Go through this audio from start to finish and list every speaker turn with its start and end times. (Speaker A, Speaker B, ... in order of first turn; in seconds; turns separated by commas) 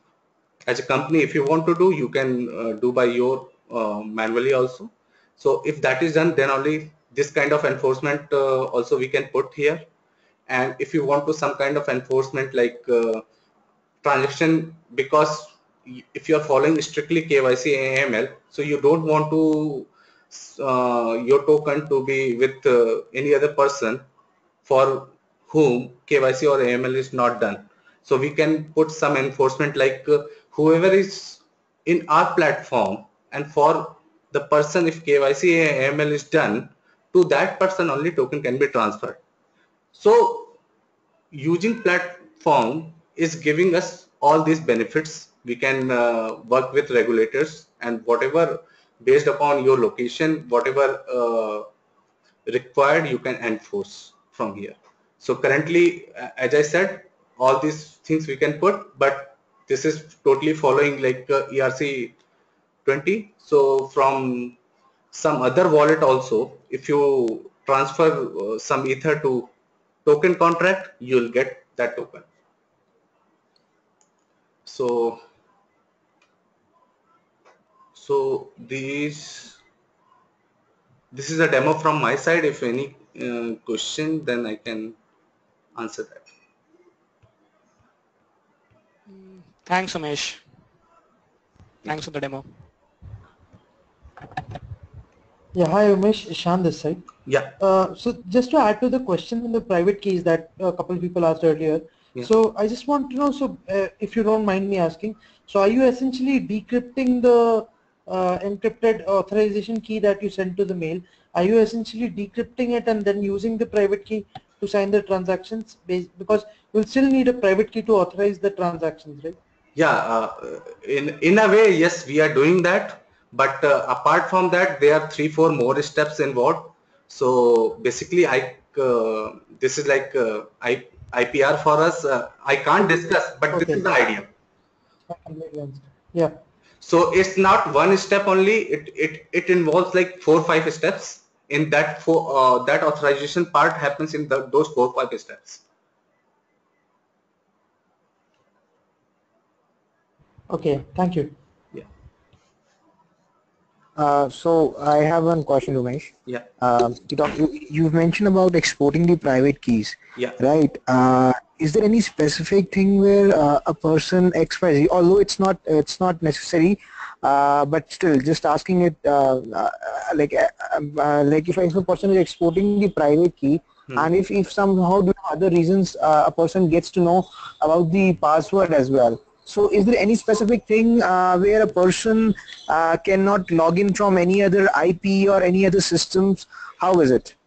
Speaker A: 0.7-9.8, Speaker A: 10.5-13.2, Speaker A: 14.0-24.1, Speaker A: 24.6-39.2, Speaker A: 39.9-40.6, Speaker A: 41.3-51.7, Speaker A: 52.5-62.1, Speaker A: 62.8-64.6, Speaker A: 65.1-69.5, Speaker A: 70.0-72.3, Speaker A: 74.6-75.2, Speaker A: 77.9-79.6, Speaker A: 81.1-85.0, Speaker A: 85.8-86.3, Speaker B: 89.1-90.4, Speaker B: 91.8-92.5, Speaker C: 95.5-97.0, Speaker A: 97.2-97.6, Speaker C: 97.6-119.4, Speaker A: 119.8-134.3, Speaker C: 133.5-133.9, Speaker C: 135.1-136.4, Speaker A: 136.8-145.6, Speaker C: 150.5-151.3, Speaker D: 153.9-187.3